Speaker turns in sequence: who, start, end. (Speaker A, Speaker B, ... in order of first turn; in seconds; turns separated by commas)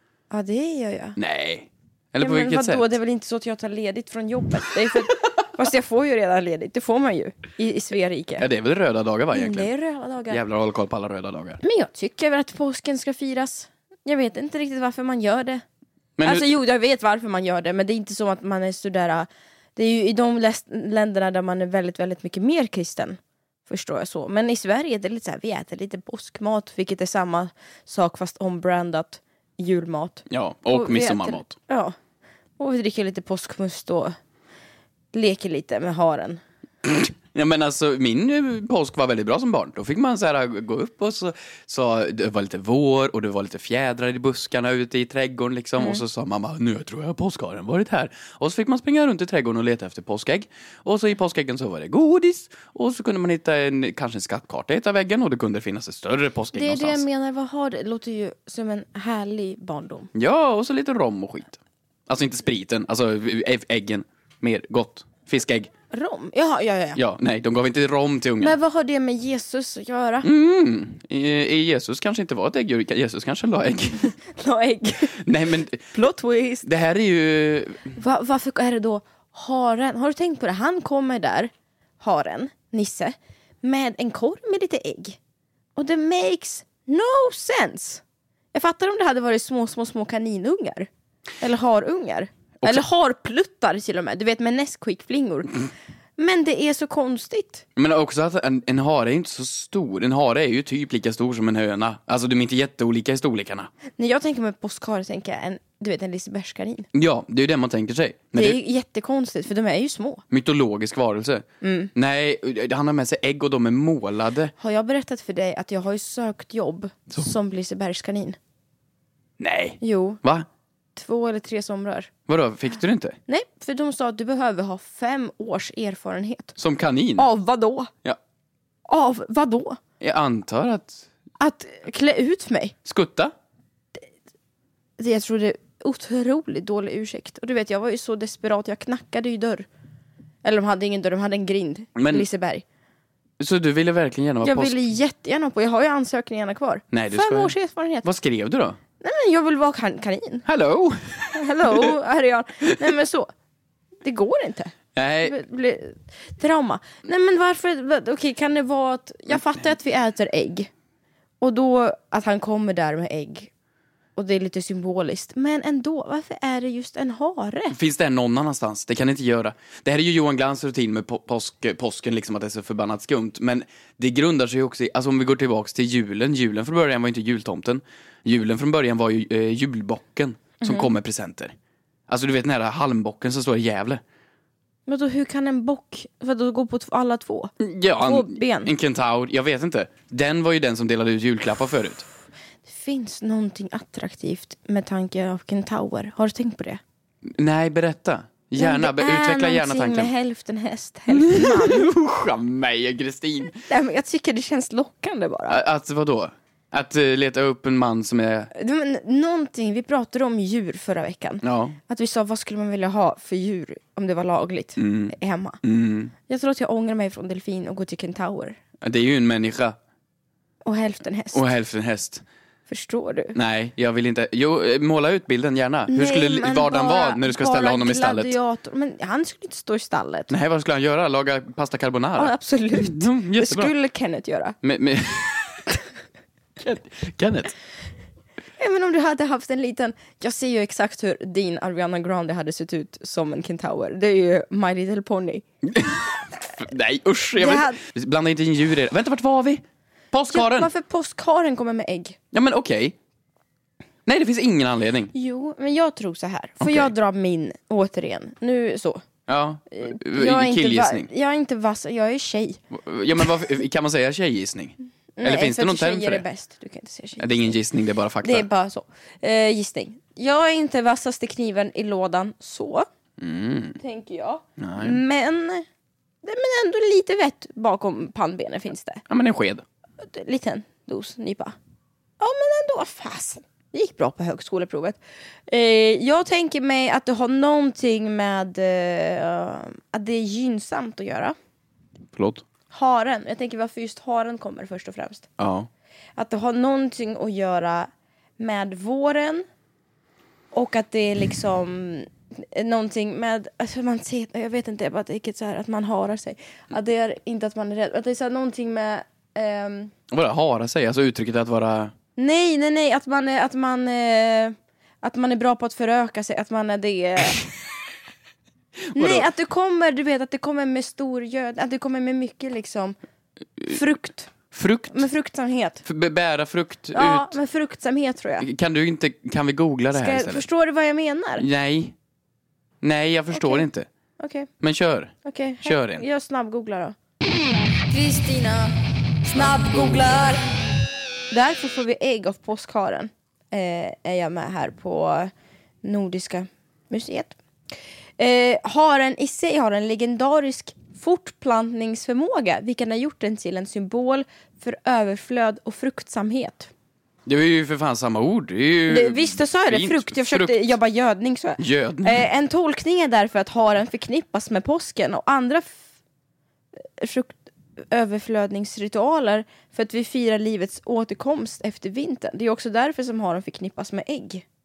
Speaker A: 0.3-1.2, Speaker B: 1.1-2.9, Speaker A: 2.2-8.5, Speaker B: 8.4-9.7, Speaker A: 9.3-10.4, Speaker B: 10.3-11.6, Speaker A: 11.6-15.6, Speaker B: 16.2-16.5, Speaker A: 16.2-31.9, Speaker B: 30.3-31.5, Speaker A: 32.6-34.1, Speaker A: 35.1-36.4, Speaker B: 36.8-57.0, Speaker A: 56.5-60.1, Speaker B: 60.1-65.7, Speaker A: 65.9-67.0, Speaker B: 67.0-68.6, Speaker A: 68.4-70.3, Speaker B: 70.2-74.1, Speaker A: 74.3-75.2, Speaker B: 75.2-75.9, Speaker A: 75.9-76.7, Speaker B: 76.6-77.9, Speaker A: 78.0-85.2, Speaker A: 85.8-88.0, Speaker A: 88.5-90.9, Speaker A: 91.4-95.6, Speaker A: 96.2-97.6, Speaker B: 97.8-103.7, Speaker A: 104.0-106.9, Speaker B: 106.9-108.6, Speaker A: 108.3-110.2, Speaker B: 110.3-114.5, Speaker A: 111.6-111.9, Speaker A: 114.6-118.4, Speaker B: 119.4-120.5, Speaker A: 119.8-120.2, Speaker A: 121.0-122.1, Speaker B: 122.3-123.2, Speaker A: 123.3-126.6, Speaker B: 126.6-127.3, Speaker A: 127.2-127.9, Speaker A: 128.9-129.8, Speaker B: 130.0-131.1, Speaker A: 131.4-132.7, Speaker B: 132.8-133.3, Speaker A: 135.0-139.7, Speaker A: 140.4-142.6, Speaker B: 141.9-142.2, Speaker B: 143.4-144.9, Speaker A: 144.4-148.1, Speaker B: 146.9-148.8, Speaker A: 149.0-150.4, Speaker B: 150.4-151.9, Speaker A: 151.3-153.3, Speaker A: 154.0-160.7, Speaker B: 154.9-155.3, Speaker A: 161.4-163.5, Speaker A: 164.2-167.8, Speaker B: 167.7-181.5, Speaker A: 180.6-180.9, Speaker B: 182.1-184.0, Speaker A: 184.9-188.7, Speaker B: 187.6-192.0, Speaker A: 192.7-196.8, Speaker B: 197.2-200.1, Speaker A: 198.6-201.9, Speaker B: 201.1-203.6, Speaker A: 203.7-205.6, Speaker B: 205.5-208.5, Speaker A: 208.5-215.6, Speaker B: 211.4-211.8, Speaker B: 214.8-216.1, Speaker A: 216.3-218.6, Speaker B: 218.8-219.8, Speaker A: 220.6-221.5, Speaker B: 221.3-222.2, Speaker A: 222.7-223.3, Speaker B: 223.3-228.3, Speaker A: 225.9-230.3, Speaker B: 230.3-233.7, Speaker A: 232.2-234.6, Speaker B: 234.6-235.6, Speaker B: 236.6-237.5, Speaker A: 238.6-245.4, Speaker B: 245.6-250.7, Speaker A: 247.4-247.8, Speaker A: 250.3-252.2, Speaker B: 252.3-252.9, Speaker B: 254.1-255.1, Speaker A: 255.1-259.0, Speaker B: 256.6-256.9, Speaker B: 259.3-261.1, Speaker A: 259.7-262.6, Speaker B: 262.7-266.2, Speaker A: 265.2-267.6, Speaker B: 267.2-268.5, Speaker A: 268.2-272.9, Speaker B: 273.2-273.8, Speaker A: 273.8-275.6, Speaker B: 274.6-275.0, Speaker A: 276.2-279.0, Speaker B: 279.1-279.6, Speaker A: 280.0-281.6, Speaker A: 282.2-291.3, Speaker B: 292.1-292.4, Speaker A: 292.7-295.3, Speaker B: 295.4-295.7, Speaker A: 296.2-299.4, Speaker A: 300.5-309.9, Speaker B: 310.1-311.9, Speaker A: 312.1-317.4, Speaker B: 318.9-319.3, Speaker A: 318.9-322.9, Speaker A: 323.7-324.3, Speaker B: 324.5-325.1, Speaker A: 324.9-325.8, Speaker B: 325.8-327.4, Speaker A: 326.9-328.5, Speaker B: 328.4-330.4, Speaker A: 329.9-331.4, Speaker B: 331.4-331.9, Speaker B: 332.8-333.9, Speaker A: 333.3-333.7, Speaker A: 334.2-334.5, Speaker B: 334.6-336.0, Speaker A: 335.2-336.9, Speaker A: 337.9-340.4, Speaker B: 339.3-340.1, Speaker A: 341.3-345.3, Speaker A: 345.8-347.4, Speaker A: 348.2-356.7, Speaker B: 357.2-360.7, Speaker A: 358.9-365.9, Speaker B: 361.6-362.2, Speaker A: 367.0-374.4